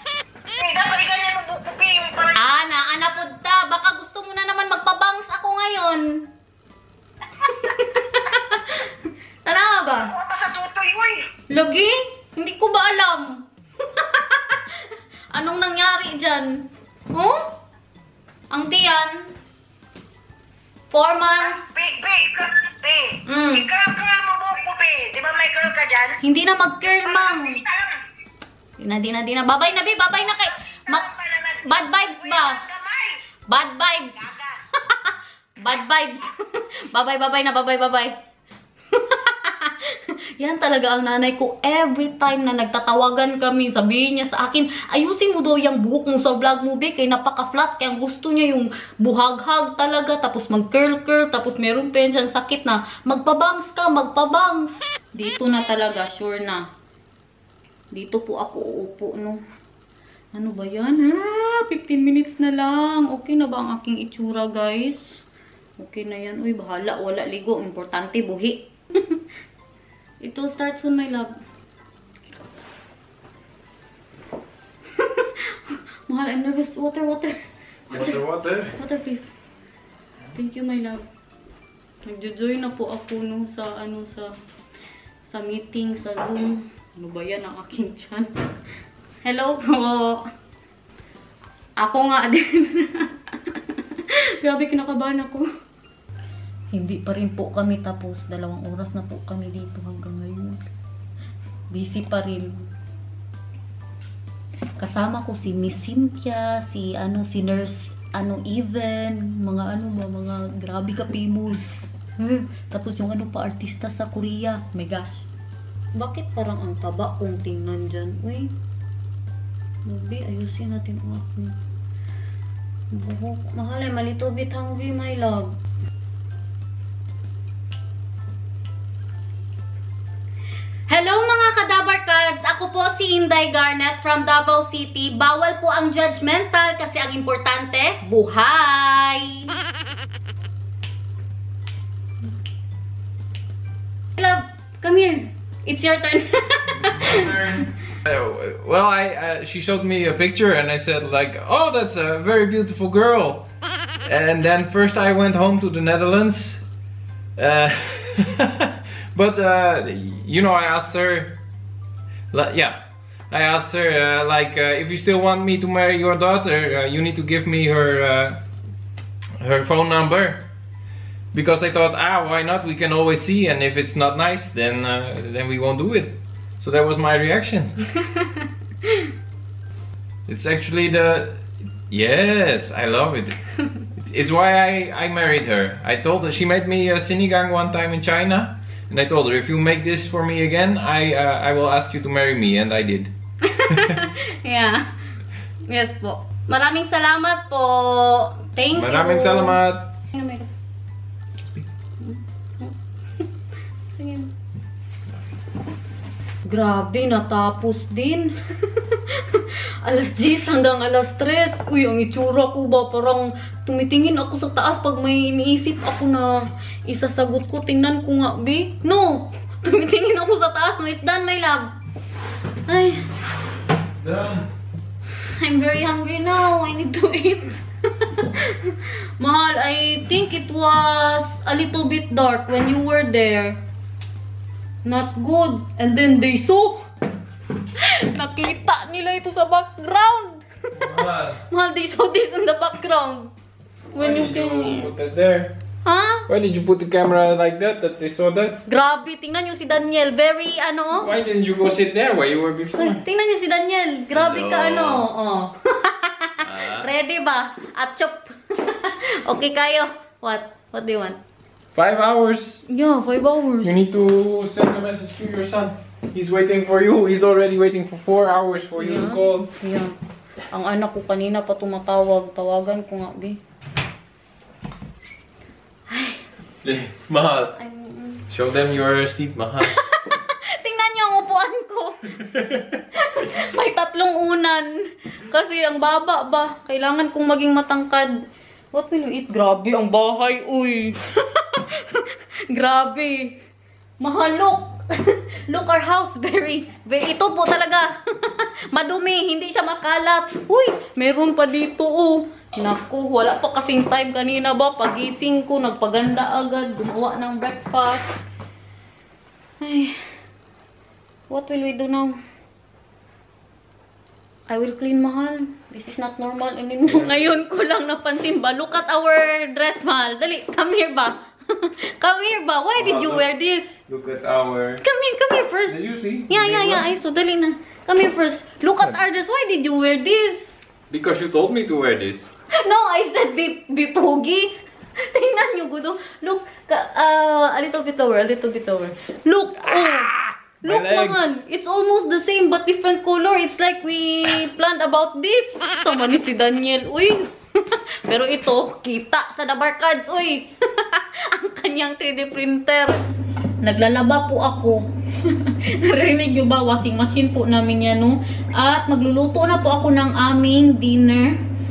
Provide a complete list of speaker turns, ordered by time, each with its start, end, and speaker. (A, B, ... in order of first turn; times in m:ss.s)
0:00.6-0:02.4 A
0:02.4-0:06.3 B
0:07.4-0:10.1 B
0:10.1-0:11.2 A
0:11.5-0:17.5 B
0:18.5-0:19.3 B
0:20.9-0:21.7 B
0:21.4-0:26.2 A
0:23.3-0:23.7 B
0:26.2-0:27.6 B
0:27.2-0:28.0 A
0:28.8-0:31.1 B
0:30.4-0:33.2 A
0:31.6-0:32.6 B
0:33.5-0:38.2 B
0:34.2-0:34.6 A
0:38.9-0:56.6 B
0:57.9-0:59.4 B
1:00.3-1:05.2 B
1:05.8-1:09.2 B
1:10.2-1:11.3 B
1:15.0-1:17.4 B
1:17.9-1:18.8 C
1:18.8-1:19.3 B
1:20.3-1:21.0 B
1:22.0-1:24.3 B
1:25.2-1:28.3 B
1:29.2-1:30.2 B
1:31.8-1:35.5 B
1:36.7-1:40.6 B
1:41.7-1:42.7 B
1:44.8-1:55.3 B
1:56.0-1:58.5 B
1:59.9-2:01.6 B
2:02.9-2:05.5 B
2:10.9-2:19.5 B
2:24.2-2:27.4 B
2:26.7-2:33.4 C
2:34.1-2:36.6 C
2:37.4-2:41.3 C
2:42.3-2:48.4 C
2:49.4-2:50.4 C
2:51.3-2:57.8 C
2:57.9-2:59.1 B
3:00.3-3:03.4 C
3:04.0-3:13.1 C
3:13.4-3:14.8 B
3:13.7-3:14.0 C
3:15.7-3:19.6 B
3:18.7-3:19.9 C
3:20.1-3:20.5 B
3:22.0-3:22.8 B
3:23.9-3:24.3 B
3:26.5-3:41.7 B
3:42.7-3:43.0 B
3:44.0-3:44.5 C
3:45.4-3:53.6 B
3:54.8-3:56.8 B
3:57.8-4:00.4 B
4:00.7-4:01.4 C
4:01.5-4:03.3 B
4:03.9-4:04.9 B
4:03.9-4:05.5 C
4:05.8-4:06.3 B
4:06.3-4:08.6 C
4:08.7-4:11.1 B
4:11.0-4:13.0 C
4:12.8-4:21.2 B
4:14.1-4:15.1 C
4:16.4-4:16.9 C
4:21.8-4:22.7 C
4:22.7-4:23.8 B
4:23.6-4:29.5 C
4:28.8-4:30.0 B
4:30.5-4:33.4 B
4:35.9-4:36.2 B
4:36.6-4:37.5 C
4:37.5-4:38.2 B
4:38.3-4:39.8 C
4:39.7-4:48.2 B
4:48.7-4:53.4 B
4:54.0-5:08.2 B
5:09.6-5:10.0 B
5:11.3-5:12.2 B
5:14.5-5:23.7 B
5:16.9-5:17.2 C
5:22.8-5:23.3 C
5:23.9-5:24.8 C
5:24.8-5:25.8 B
5:25.7-5:26.9 C
5:26.3-5:30.5 B
5:30.9-5:32.3 C
5:32.5-5:34.5 B
5:35.1-5:53.0 B
5:39.6-5:41.3 C
5:53.6-6:01.4 B